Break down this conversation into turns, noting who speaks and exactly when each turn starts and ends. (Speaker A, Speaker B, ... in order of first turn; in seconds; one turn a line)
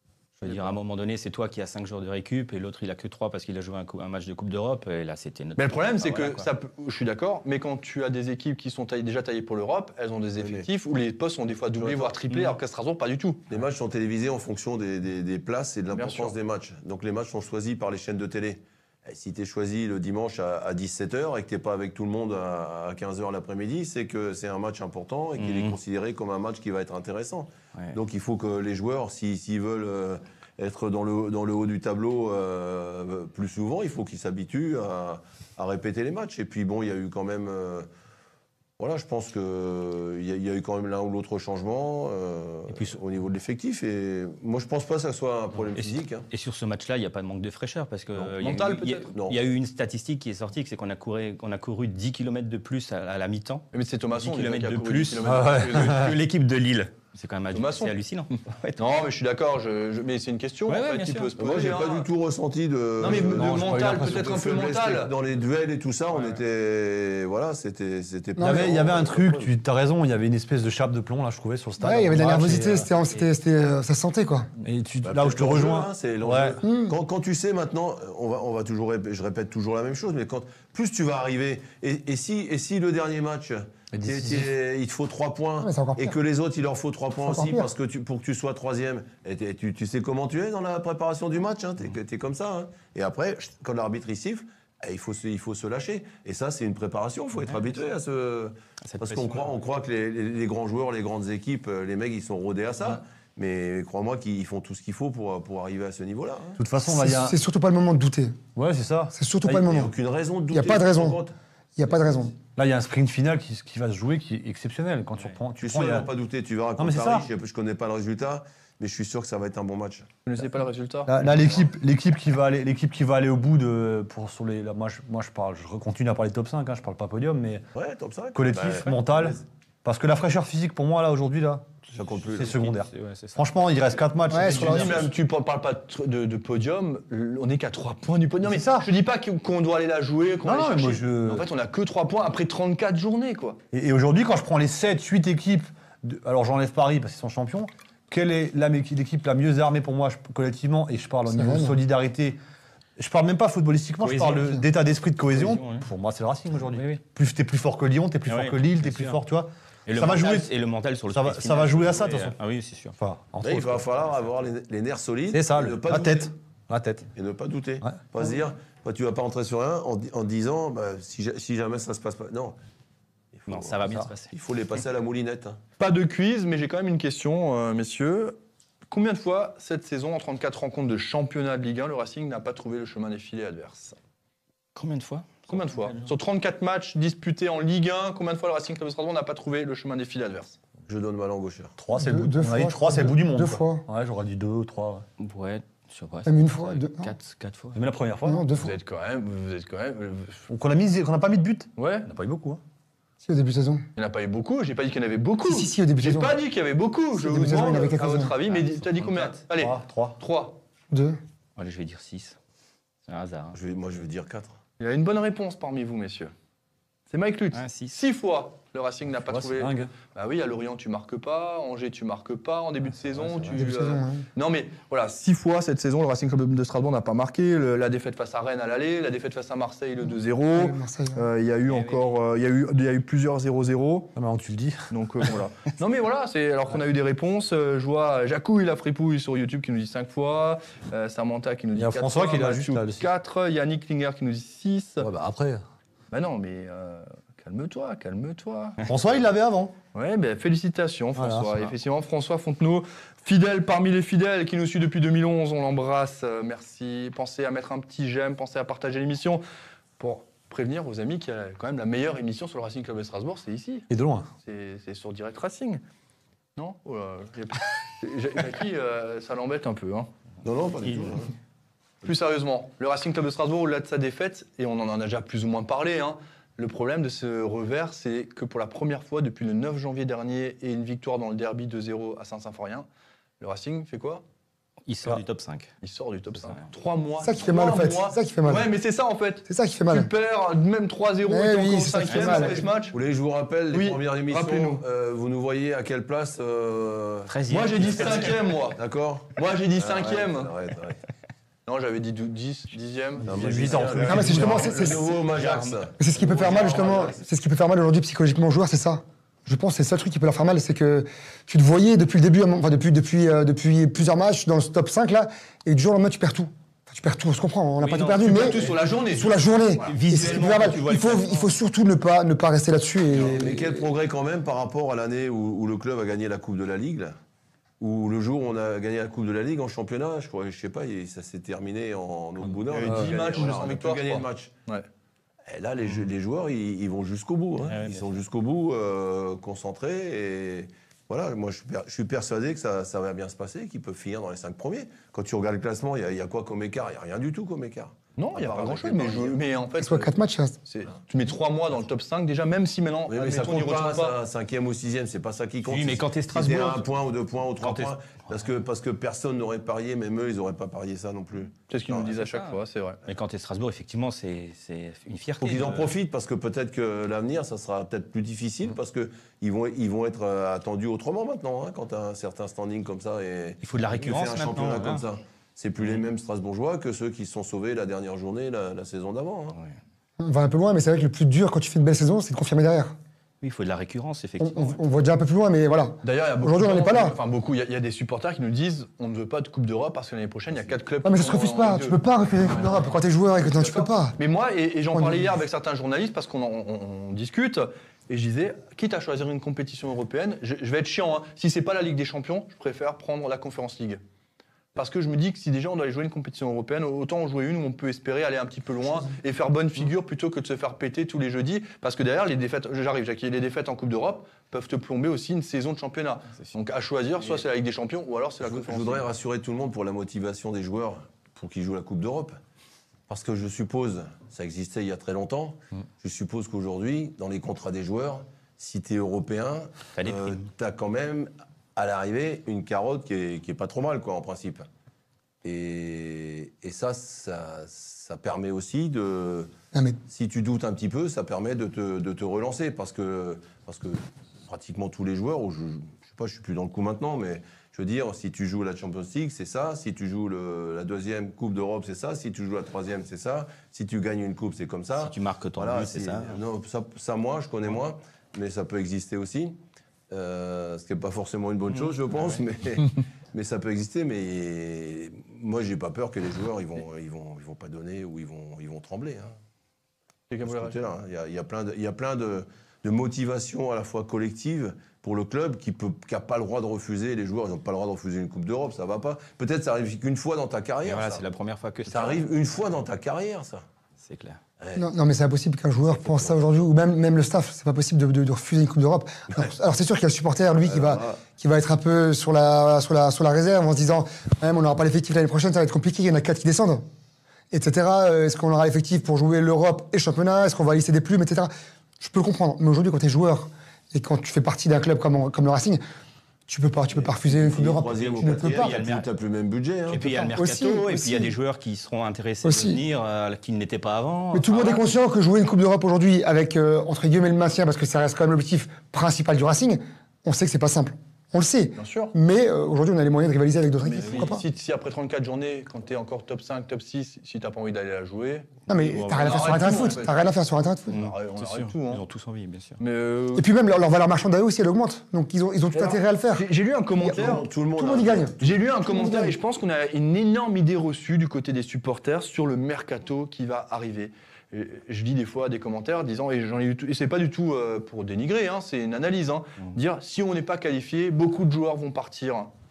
Speaker A: 0.4-6.5
Speaker B: 5.6-13.5
Speaker C: 10.4-10.7
Speaker C: 11.8-12.1
Speaker C: 13.5-37.9
Speaker B: 15.9-16.4
Speaker A: 25.4-25.8
Speaker C: 38.8-46.2
Speaker A: 42.7-43.0
Speaker A: 45.7-59.0
Speaker B: 48.4-49.1
Speaker C: 49.1-49.4
Speaker B: 53.7-56.1
Speaker D: 55.2-56.2
Speaker B: 57.5-57.9
Speaker B: 58.8-62.1
Speaker A: 60.7-61.3
Speaker C: 61.4-69.5
Speaker B: 63.0-65.1
Speaker D: 63.0-64.3
Speaker E: 68.4-68.7
Speaker D: 68.4-72.9
Speaker E: 71.8-74.5
Speaker D: 74.6-76.6
Speaker C: 75.0-106.6
Speaker E: 76.6-77.0
Speaker D: 83.9-84.5
Speaker E: 85.6-86.1
Speaker E: 87.2-87.7
Speaker A: 98.8-99.5
Speaker D: 106.6-107.4
Speaker E: 106.9-108.4
Speaker D: 108.5-109.7
Speaker E: 109.1-109.9
Speaker C: 109.5-111.3
Speaker E: 110.5-111.2
Speaker E: 111.8-112.3
Speaker D: 112.5-116.1
Speaker C: 115.6-120.1
Speaker D: 116.8-117.3
Speaker B: 120.2-121.4
Speaker D: 121.1-127.6
Speaker C: 127.7-129.4
Speaker D: 128.3-135.1
Speaker C: 131.9-132.6
Speaker A: 132.3-133.5
Speaker E: 134.3-135.1
Speaker B: 134.4-143.6
Speaker D: 138.4-138.9
Speaker D: 140.4-141.5
Speaker D: 143.7-152.4
Speaker E: 151.3-151.7
Speaker D: 153.0-160.5
Speaker A: 154.0-154.6
Speaker A: 155.3-155.9
Speaker A: 156.7-157.0
Speaker A: 158.3-159.2
Speaker A: 159.8-162.9
Speaker D: 161.1-162.3
Speaker D: 163.0-163.9
Speaker C: 163.4-166.3
Speaker D: 165.3-167.1
Speaker C: 167.1-172.6
Speaker C: 173.3-175.6
Speaker A: 173.5-174.3
Speaker B: 175.8-178.4
Speaker B: 178.9-183.9
Speaker A: 184.7-186.0
Speaker B: 185.5-190.6
Speaker C: 190.9-191.7
Speaker D: 191.8-195.0
Speaker E: 191.9-193.8
Speaker A: 195.2-197.8
Speaker E: 196.2-197.1
Speaker D: 197.7-198.5
Speaker E: 198.2-198.7
Speaker B: 198.6-200.4
Speaker D: 200.5-202.6
Speaker B: 201.8-202.1
Speaker E: 203.2-203.8
Speaker B: 203.9-210.6
Speaker E: 205.4-206.4
Speaker E: 207.1-208.4
Speaker A: 208.4-209.4
Speaker D: 209.5-210.2
Speaker E: 210.9-211.2
Speaker A: 211.6-212.4
Speaker A: 213.1-213.6
Speaker C: 213.5-214.6
Speaker B: 214.8-216.3
Speaker B: 217.1-234.1
Speaker A: 217.5-217.9
Speaker D: 219.3-219.9
Speaker D: 223.1-223.5
Speaker E: 223.5-224.2
Speaker E: 230.5-231.2
Speaker A: 231.7-232.1
Speaker D: 234.2-234.9
Speaker B: 234.9-245.1
Speaker D: 241.7-243.1
Speaker D: 245.0-245.6
Speaker B: 246.1-248.8
Speaker D: 248.8-249.8
Speaker B: 249.9-259.4
Speaker D: 251.2-251.6
Speaker B: 260.0-263.9
Speaker D: 263.9-264.3
Speaker B: 264.4-265.8
Speaker B: 266.6-270.1
Speaker C: 270.4-271.3
Speaker B: 272.0-282.9
Speaker B: 283.4-284.2
Speaker A: 284.9-285.7
Speaker B: 285.8-293.0
Speaker E: 287.2-288.7
Speaker E: 289.5-290.1
Speaker E: 291.3-292.7
Speaker A: 292.1-292.4
Speaker C: 292.8-301.0
Speaker B: 293.7-294.8
Speaker A: 297.3-298.4
Speaker B: 297.5-298.8
Speaker B: 299.3-300.5
Speaker B: 301.6-304.0
Speaker D: 303.2-304.8
Speaker C: 303.2-307.2
Speaker E: 304.0-305.1
Speaker A: 305.3-305.9
Speaker E: 306.0-323.9
Speaker A: 317.8-318.7
Speaker B: 318.2-320.7
Speaker A: 319.8-321.6
Speaker C: 323.1-327.1
Speaker C: 327.8-334.5
Speaker B: 332.7-334.9
Speaker D: 332.8-333.2
Speaker C: 335.5-349.4
Speaker A: 337.6-338.1
Speaker B: 348.2-354.2
Speaker E: 349.8-350.6
Speaker C: 353.1-362.1
Speaker A: 355.6-356.9
Speaker A: 357.6-357.9
Speaker B: 361.7-363.0
Speaker A: 362.1-365.9
Speaker C: 365.4-379.6
Speaker A: 373.6-375.0
Speaker E: 380.2-382.9
Speaker A: 383.4-384.8
Speaker E: 384.4-387.1
Speaker B: 386.0-392.0
Speaker E: 391.0-394.2
Speaker B: 393.4-404.0
Speaker E: 394.9-395.3
Speaker B: 404.7-419.1
Speaker C: 418.4-422.4
Speaker C: 423.1-434.7
Speaker A: 429.9-430.4
Speaker C: 435.4-439.5
Speaker E: 439.7-440.0
Speaker C: 440.1-459.6
Speaker A: 455.0-456.4
Speaker C: 460.1-469.4
Speaker A: 461.7-462.4
Speaker B: 470.3-470.8
Speaker C: 470.4-481.2
Speaker A: 480.8-482.3
Speaker C: 481.9-483.6
Speaker A: 484.0-484.4
Speaker C: 484.6-484.9
Speaker E: 484.8-496.8
Speaker C: 485.8-486.4
Speaker C: 490.6-491.2
Speaker E: 497.5-505.8
Speaker E: 506.5-508.8
Speaker C: 506.9-510.0
Speaker A: 508.2-509.1
Speaker A: 509.9-514.8
Speaker E: 510.0-511.3
Speaker E: 512.4-512.8
Speaker E: 514.3-524.4
Speaker B: 521.8-522.1
Speaker B: 523.8-530.1
Speaker E: 528.7-531.0
Speaker A: 528.9-530.0
Speaker B: 530.9-532.0
Speaker A: 530.9-532.8
Speaker B: 532.8-533.5
Speaker E: 533.4-536.5
Speaker B: 535.7-537.4
Speaker E: 537.0-539.4
Speaker C: 537.1-538.5
Speaker B: 538.4-552.5